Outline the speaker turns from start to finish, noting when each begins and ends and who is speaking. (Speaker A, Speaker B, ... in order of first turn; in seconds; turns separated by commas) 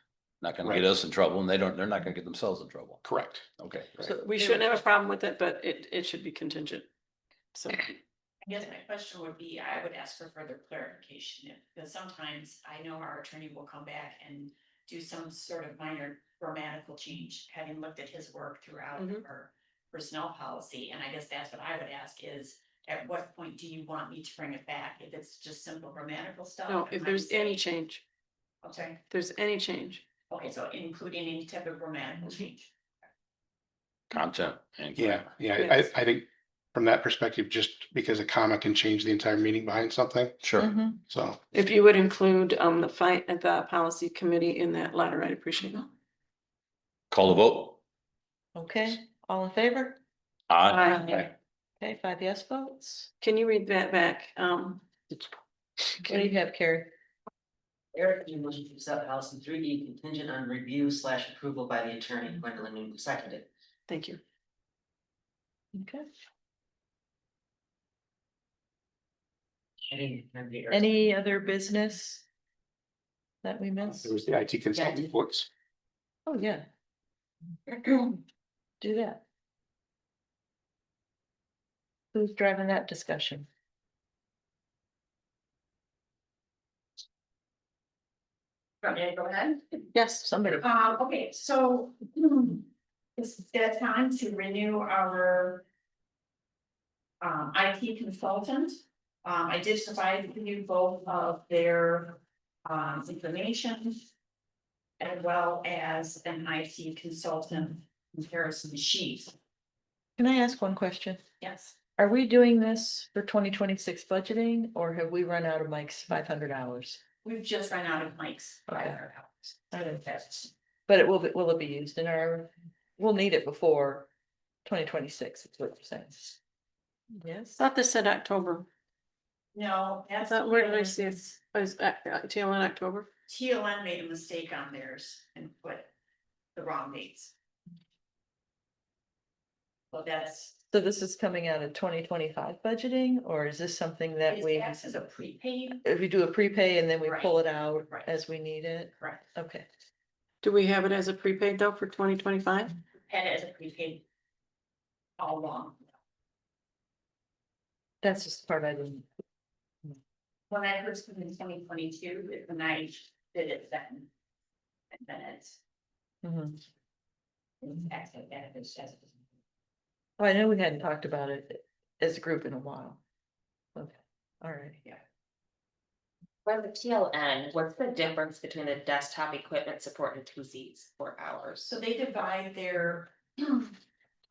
Speaker A: 0.4-3.0, Speaker B: 0.6-1.0, Speaker B: 3.0-4.2, Speaker A: 3.6-4.0, Speaker C: 4.0-4.7, Speaker D: 4.2-6.9, Speaker D: 7.5-8.0, Speaker E: 8.4-27.7, Speaker D: 19.0-19.2, Speaker D: 26.7-28.0, Speaker E: 28.6-29.0, Speaker D: 29.1-30.0, Speaker E: 30.3-32.7, Speaker A: 34.1-35.3, Speaker B: 35.0-40.5, Speaker D: 35.6-35.9, Speaker A: 40.4-40.8, Speaker C: 40.6-41.0, Speaker B: 41.0-41.4, Speaker D: 41.5-45.9, Speaker A: 47.1-47.8, Speaker C: 48.5-50.0, Speaker A: 50.5-51.3, Speaker D: 50.7-51.2, Speaker C: 51.8-53.1, Speaker D: 53.2-55.3, Speaker C: 56.0-56.9, Speaker F: 58.0-63.4, Speaker D: 63.9-64.2, Speaker C: 65.8-66.1, Speaker F: 69.9-70.7, Speaker C: 70.7-72.2, Speaker C: 73.4-74.1, Speaker B: 73.9-75.5, Speaker C: 76.3-76.7, Speaker C: 77.7-78.2, Speaker C: 78.8-79.2, Speaker C: 82.1-83.5, Speaker E: 88.8-89.9, Speaker D: 89.9-90.3, Speaker C: 90.2-90.7, Speaker E: 90.6-95.6, Speaker E: 97.2-104.0, Speaker E: 105.0-109.3, Speaker C: 110.2-111.2, Speaker E: 111.4-111.8, Speaker C: 112.0-117.0, Speaker E: 117.2-120.5, Speaker C: 118.7-119.0, Speaker C: 119.7-124.1, Speaker C: 124.7-126.4, Speaker C: 127.2-127.6, Speaker D: 127.6-128.7, Speaker E: 129.5-130.9, Speaker D: 130.2-133.1, Speaker E: 133.3-135.9, Speaker E: 136.6-137.3, Speaker E: 139.9-140.6, Speaker C: 140.7-144.8, Speaker E: 144.3-145.8, Speaker C: 145.8-149.7, Speaker E: 147.0-148.2, Speaker D: 150.4-152.8, Speaker E: 153.1-154.0, Speaker E: 155.2-155.8, Speaker C: 158.0-159.1, Speaker E: 160.5-164.1, Speaker E: 164.9-165.6, Speaker C: 166.2-166.6, Speaker E: 167.6-169.2, Speaker C: 170.2-173.0, Speaker C: 173.8-174.8, Speaker G: 176.5-181.7, Speaker E: 181.7-183.8